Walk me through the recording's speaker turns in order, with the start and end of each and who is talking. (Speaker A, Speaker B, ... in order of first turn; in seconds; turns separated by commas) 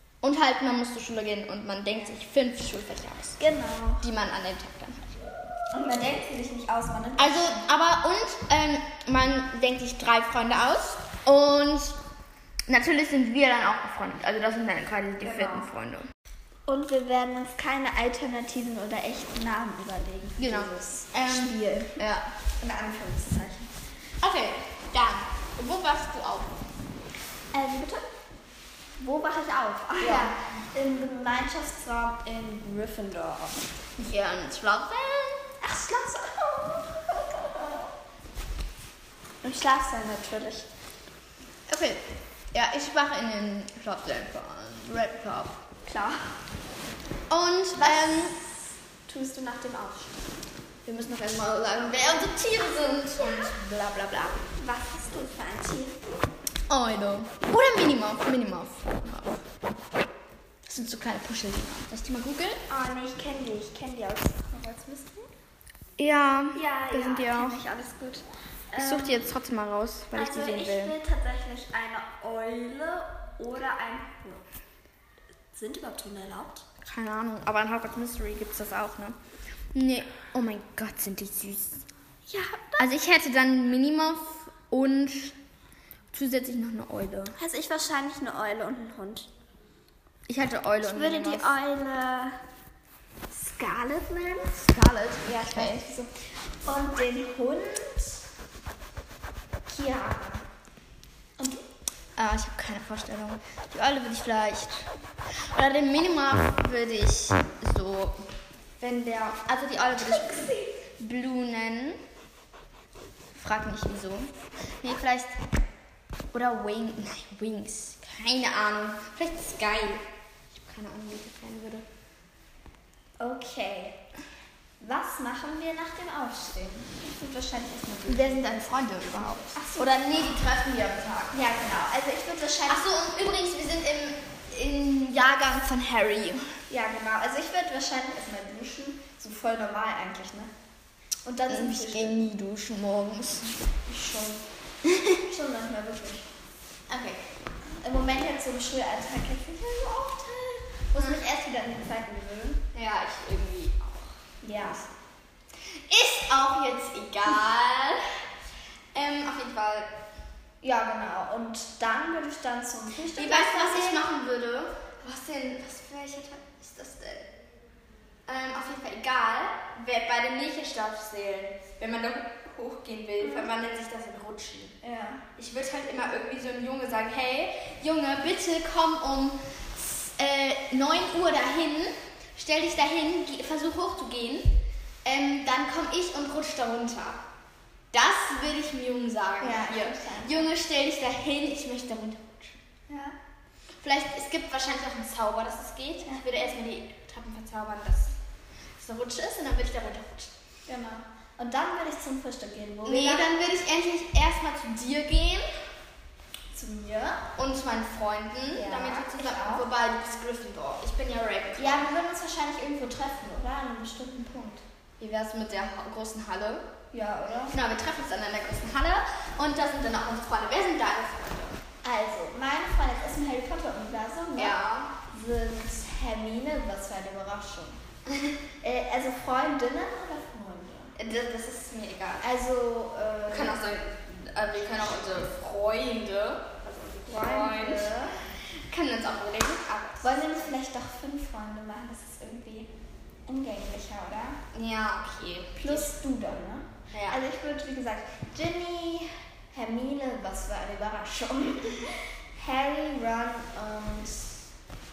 Speaker A: 0.2-3.4, Speaker B: 3.4-4.0, Speaker A: 4.0-5.0, Speaker B: 5.7-7.6, Speaker A: 7.2-11.9, Speaker A: 12.7-16.1, Speaker B: 15.2-15.7, Speaker B: 16.7-22.0, Speaker A: 20.4-22.3, Speaker B: 22.6-23.7, Speaker A: 24.2-26.6, Speaker B: 27.5-28.1, Speaker B: 29.0-33.6, Speaker A: 30.0-30.4, Speaker A: 34.0-35.5, Speaker B: 35.6-37.9, Speaker B: 39.4-40.7, Speaker A: 41.7-45.6, Speaker B: 45.9-46.3, Speaker A: 47.3-48.4, Speaker B: 47.8-48.5, Speaker B: 49.1-50.1, Speaker A: 50.8-54.4, Speaker B: 54.5-56.0, Speaker A: 56.7-59.4, Speaker A: 60.6-62.6, Speaker B: 62.7-65.3, Speaker A: 66.0-67.6, Speaker B: 66.5-69.2, Speaker A: 68.8-70.9, Speaker B: 70.1-74.4, Speaker B: 75.5-76.6, Speaker A: 76.8-79.2, Speaker A: 79.7-81.8, Speaker B: 82.3-82.9, Speaker A: 82.8-85.3, Speaker A: 86.1-87.3, Speaker B: 87.3-89.3, Speaker A: 90.3-91.5, Speaker B: 90.8-92.4, Speaker B: 93.3-94.6, Speaker A: 94.6-95.9, Speaker B: 95.2-96.1, Speaker B: 96.7-98.2, Speaker B: 99.7-100.4, Speaker B: 101.4-101.6, Speaker A: 102.2-104.9, Speaker A: 105.5-108.2, Speaker A: 108.8-112.0, Speaker B: 110.0-110.8, Speaker A: 113.3-115.4, Speaker A: 116.3-121.8, Speaker B: 123.2-124.0, Speaker B: 124.8-128.5, Speaker A: 128.1-131.4, Speaker B: 129.2-130.4, Speaker B: 131.3-132.9, Speaker A: 132.7-136.5, Speaker B: 136.7-140.5, Speaker B: 141.2-142.3, Speaker A: 141.5-143.7, Speaker B: 143.9-144.4, Speaker A: 144.8-145.2, Speaker B: 145.2-146.3, Speaker A: 146.9-147.3, Speaker B: 147.8-152.6, Speaker A: 150.9-151.2, Speaker A: 152.7-154.2, Speaker B: 154.4-154.9, Speaker A: 155.9-158.0, Speaker A: 158.9-159.9, Speaker B: 160.6-164.1, Speaker A: 163.1-167.3, Speaker A: 168.3-174.7, Speaker B: 173.2-173.5, Speaker B: 174.8-175.2, Speaker A: 175.4-187.2, Speaker A: 187.9-192.6, Speaker B: 189.4-190.5, Speaker B: 192.9-193.1, Speaker A: 193.8-198.2, Speaker A: 198.8-200.3, Speaker B: 200.7-203.3, Speaker A: 202.8-205.4, Speaker B: 206.5-207.2, Speaker A: 207.3-211.9, Speaker B: 208.5-209.7, Speaker B: 211.6-214.6, Speaker A: 215.0-216.7, Speaker B: 216.9-217.5, Speaker A: 217.5-221.6, Speaker B: 221.8-227.8, Speaker A: 224.3-224.9, Speaker A: 228.1-228.3, Speaker B: 228.6-230.9, Speaker A: 230.9-232.3, Speaker B: 232.2-233.6, Speaker A: 233.3-240.5, Speaker B: 237.1-238.1, Speaker B: 240.0-242.7, Speaker B: 243.3-244.4, Speaker A: 244.5-245.9, Speaker B: 245.6-254.3, Speaker A: 246.9-247.2